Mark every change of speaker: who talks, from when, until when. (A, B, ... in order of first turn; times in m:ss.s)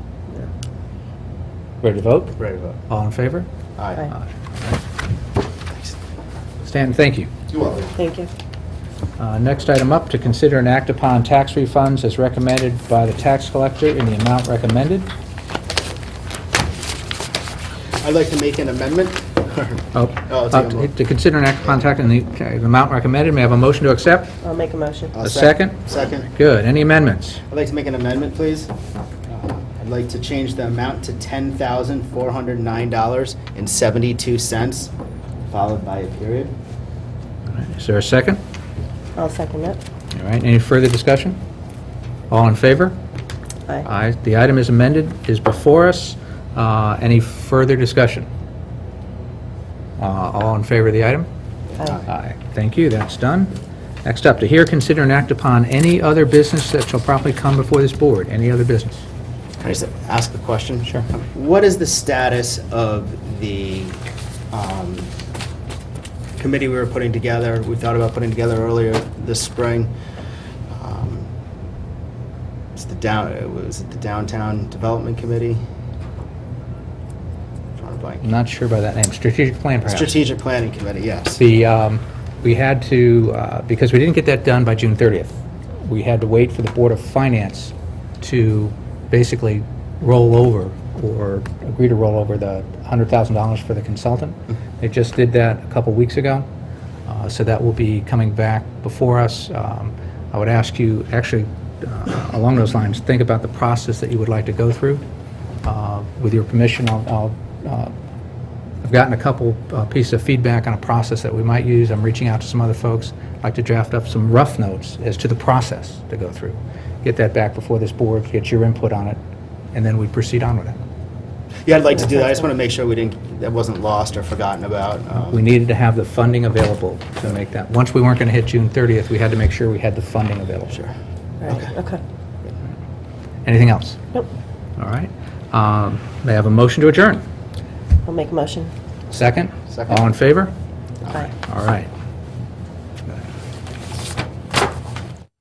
0:01.8-0:03.5 A
0:02.4-0:02.8 B
0:03.8-0:04.1 B
0:04.1-0:04.8 A
0:06.6-0:07.3 A
0:07.9-0:08.3 C
0:09.2-0:15.1 A
0:18.0-0:20.9 B
0:19.9-0:24.3 A
0:24.4-0:25.2 C
0:25.1-0:26.3 B
0:25.2-0:27.4 A
0:27.5-0:28.7 B
0:29.3-0:34.9 B
0:35.5-0:36.5 B
0:37.5-0:38.4 A
0:39.2-0:39.8 C
0:40.1-0:41.4 A
0:42.3-0:43.0 A
0:43.8-0:48.3 A
0:50.0-0:51.3 A
0:52.0-0:59.1 A
0:59.6-1:04.0 B
1:04.5-1:05.1 B
1:06.4-1:09.9 B
1:10.7-1:11.3 B
1:12.8-1:15.6 B
1:17.8-1:18.2 B
1:18.2-1:20.2 A
1:19.9-1:21.4 B
1:21.4-1:36.5 A
1:37.1-1:45.0 A
1:45.6-1:47.9 A
1:48.8-1:59.2 A
1:59.7-2:00.8 A
2:01.6-2:05.4 B
2:05.2-2:10.8 A
2:11.4-2:12.0 C
2:11.5-2:11.7 B
2:13.4-2:14.1 A
2:14.8-2:17.2 A
2:18.1-2:18.7 C
2:19.1-2:20.5 A
2:19.7-2:20.0 B
2:21.3-2:21.9 A